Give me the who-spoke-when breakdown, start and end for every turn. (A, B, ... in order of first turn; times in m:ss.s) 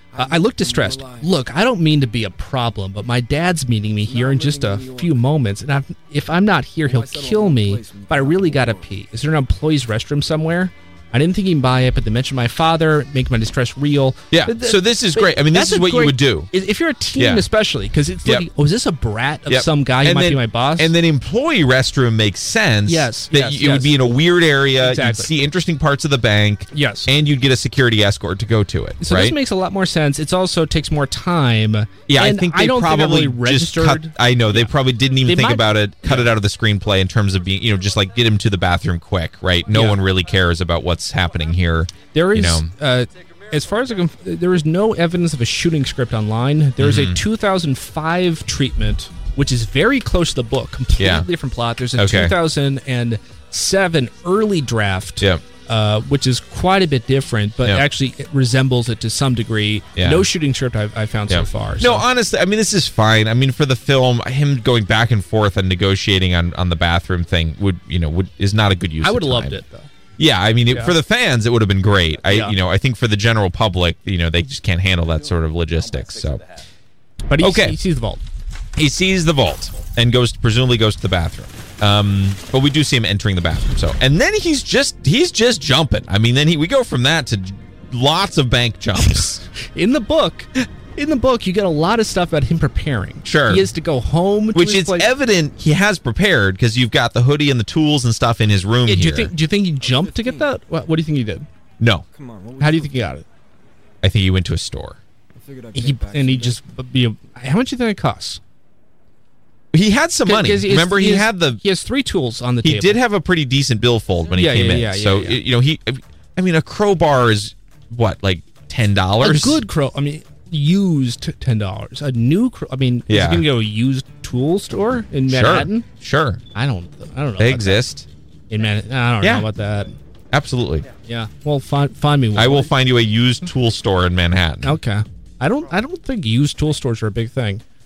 0:00.1-0:01.3 A
0:00.2-0:20.9 B
0:04.0-0:05.2 A
0:06.8-0:08.9 A
0:14.3-0:16.5 C
0:17.2-0:17.4 C
0:19.5-0:29.4 C
0:22.9-0:24.2 B
0:24.8-0:25.3 B
0:26.7-0:27.1 B
0:29.0-0:34.7 B
0:32.1-0:42.7 C
0:35.2-0:36.3 B
0:39.7-0:40.0 B
0:42.1-1:02.0 B
0:46.8-0:47.2 C
0:51.0-0:51.3 C
0:52.0-0:52.4 C
1:00.0-1:00.3 C
1:01.3-1:09.6 C
1:09.0-1:09.9 B
1:10.2-1:16.4 C
1:10.7-1:11.0 B
1:12.3-1:12.6 B
1:17.3-1:18.2 B
1:17.4-1:17.8 C
1:18.8-1:29.4 C
1:29.1-1:35.1 B
1:33.2-1:33.7 C
1:34.5-1:39.3 C
1:38.8-1:41.5 B
1:39.8-1:40.5 A
1:41.8-1:42.0 C
1:42.1-1:43.2 A
1:42.6-1:43.2 B
1:44.0-1:45.0 C
1:45.4-1:46.6 A
1:45.7-1:48.4 B
1:49.7-1:51.6 C
1:50.2-1:53.0 B
1:52.6-1:59.6 C
1:54.3-1:55.4 B
1:59.2-2:05.9 B
2:03.1-2:03.5 C
2:05.3-2:06.4 C
2:06.5-2:07.8 B
2:07.4-2:08.1 C
2:08.5-2:10.0 B
2:09.2-2:09.5 C
2:10.3-2:10.9 C
2:11.0-2:12.7 B
2:12.4-2:14.8 C
2:14.6-2:17.6 B